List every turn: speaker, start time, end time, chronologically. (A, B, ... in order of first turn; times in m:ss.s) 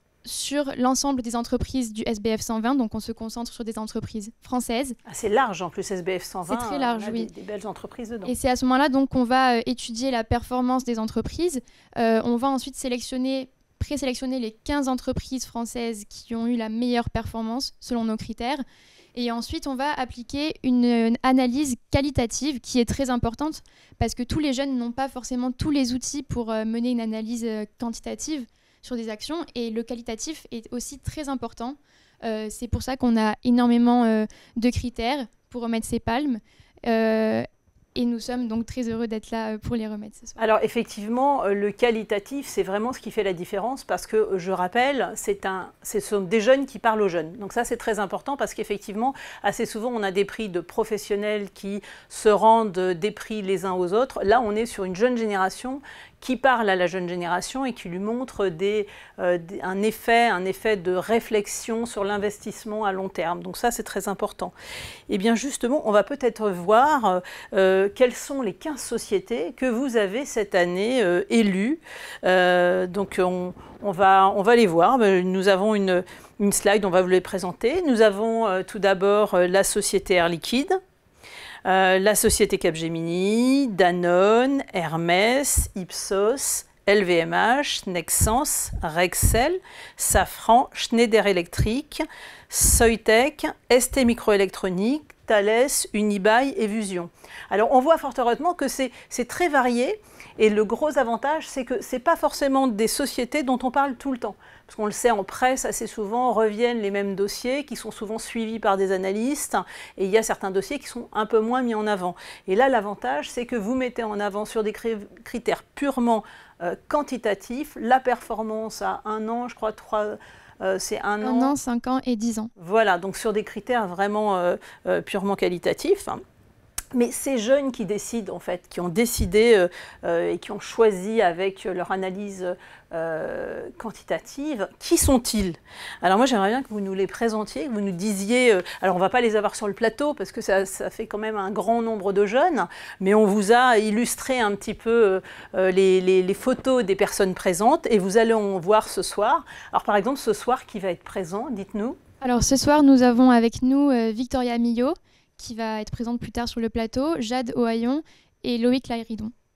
0:00.3-0:05.0 A
0:05.1-0:08.3 B
0:06.5-0:07.3 A
0:08.2-0:18.6 A
0:19.2-0:40.4 A
0:40.4-1:04.5 B
1:05.1-1:20.8 B
1:21.7-2:01.5 B
2:01.2-2:02.5 A
2:02.6-2:06.2 B
2:06.9-2:32.0 B
2:32.2-2:39.3 A